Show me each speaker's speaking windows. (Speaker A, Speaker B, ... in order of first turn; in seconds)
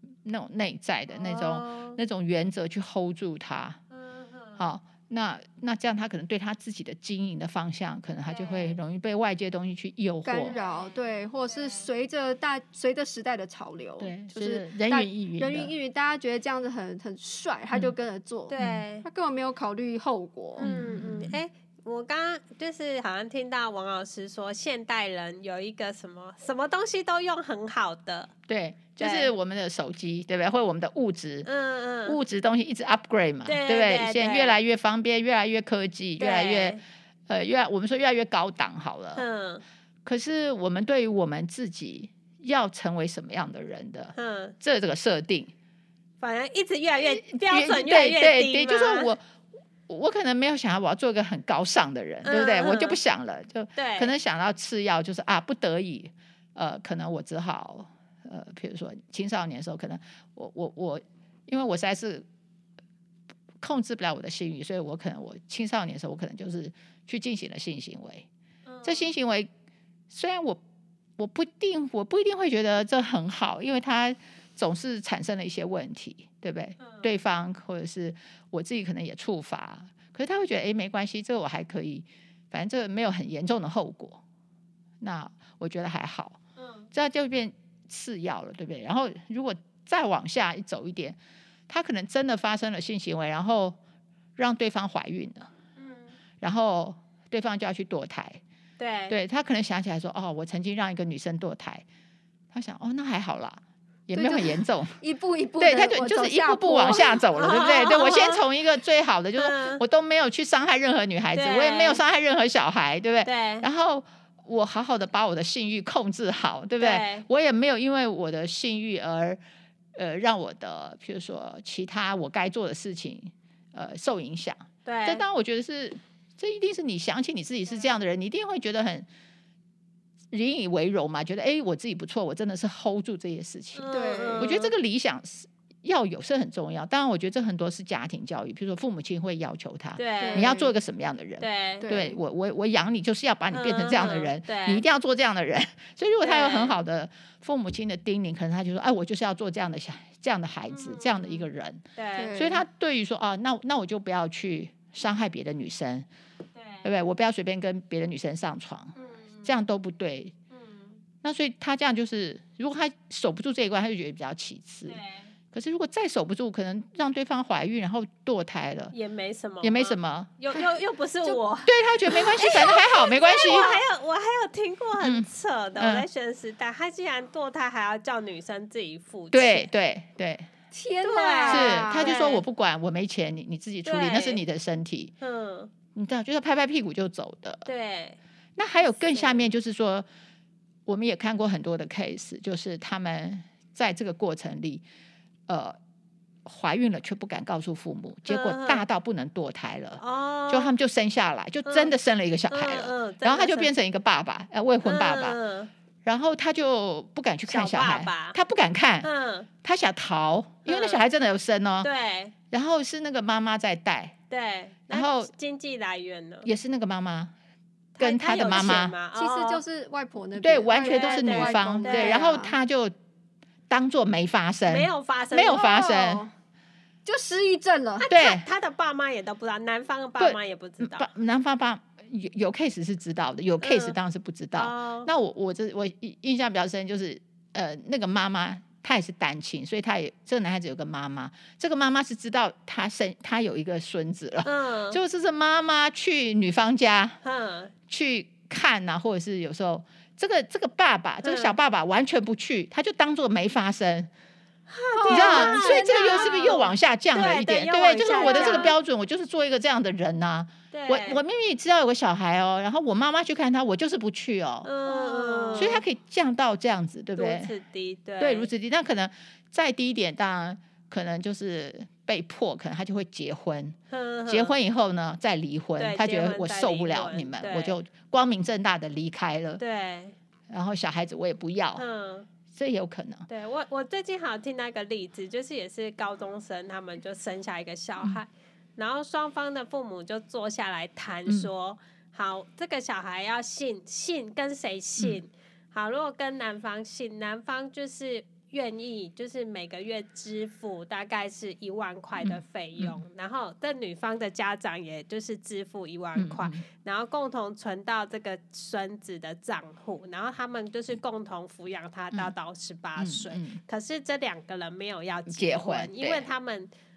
Speaker A: 0.2-3.8, 4.6-10.6, 14.0-15.7, 18.6-18.8, 20.6-21.4, 28.5-31.5, 32.0-39.2, 40.0-45.5, 47.0-49.2, 49.9-62.2, 63.6-68.3, 68.8-69.5, 70.1-70.6, 71.2-84.2, 85.0-86.4, 86.9-91.2, 91.7-93.8, 94.4-95.5, 96.4-98.4, 99.1-101.8, 102.5-105.0, 105.6-119.4, 120.0-129.1, 130.3-151.8, 152.3-156.1, 156.8-160.3, 161.2-165.0, 165.5-168.9, 169.6-170.7, 171.7-173.8, 175.0-176.1, 179.3-180.5, 181.5-185.1, 185.9-187.7, 188.6-190.1, 190.8-194.8, 195.5-195.8, 196.4-205.4, 206.0-209.1, 209.6-211.9, 212.5-214.1, 214.9-215.3, 216.4-217.3, 218.0-218.9, 220.4-222.9, 223.7-226.2, 228.1-228.4, 230.2-247.2, 247.9-254.1, 255.1-264.7, 265.6-267.5, 268.2-273.8, 274.3-279.6, 280.5-281.8, 282.5-283.3, 302.2-303.0, 306.1-306.6, 313.0-313.6, 315.3-316.3
Speaker B: 1.1-2.0, 3.9-4.6, 8.3-8.8, 10.4-11.8, 18.5-19.0, 20.6-28.3, 29.0-29.3, 31.4-32.2, 33.5-34.5, 36.2-36.8, 39.1-39.6, 44.1-44.5, 46.2-49.1, 52.2-53.0, 53.8-54.1, 68.7-69.1, 76.8-77.1, 86.6-86.9, 95.8-96.1, 98.8-99.1, 107.3-108.4, 109.4-109.8, 111.3-112.0, 113.2-113.7, 116.8-117.2, 124.8-125.2, 133.8-134.7, 140.0-140.5, 141.4-141.8, 143.5-144.8, 146.2-146.8, 150.7-152.4, 156.5-156.9, 158.9-159.5, 160.5-161.0, 164.9-165.3, 168.9-179.7, 181.0-182.4, 183.8-184.4, 185.2-185.7, 187.7-188.2, 189.1-189.4, 198.3-198.8, 200.0-200.7, 201.7-201.9, 202.5-203.7, 204.8-205.7, 207.5-208.4, 209.0-209.5, 210.7-211.0, 211.8-212.3, 214.3-216.5, 218.0-219.6, 220.7-222.3, 224.7-225.8, 228.0-231.1, 233.6-233.9, 234.5-235.1, 244.4-245.0, 247.2-247.7, 251.2-251.5, 254.7-258.8, 260.7-261.2, 264.6-265.8, 267.1-268.5, 273.9-274.6, 275.8-277.8, 279.6-280.1, 281.8-282.3, 283.3-316.7
Speaker C: 10.2-20.7, 104.1-107.2, 133.9-134.5, 140.2-140.7, 141.8-142.2, 152.1-152.6, 180.7-182.2, 219.1-222.5, 225.5-226.3, 227.0-228.1, 254.9-256.6, 258.0-258.7, 264.8-265.8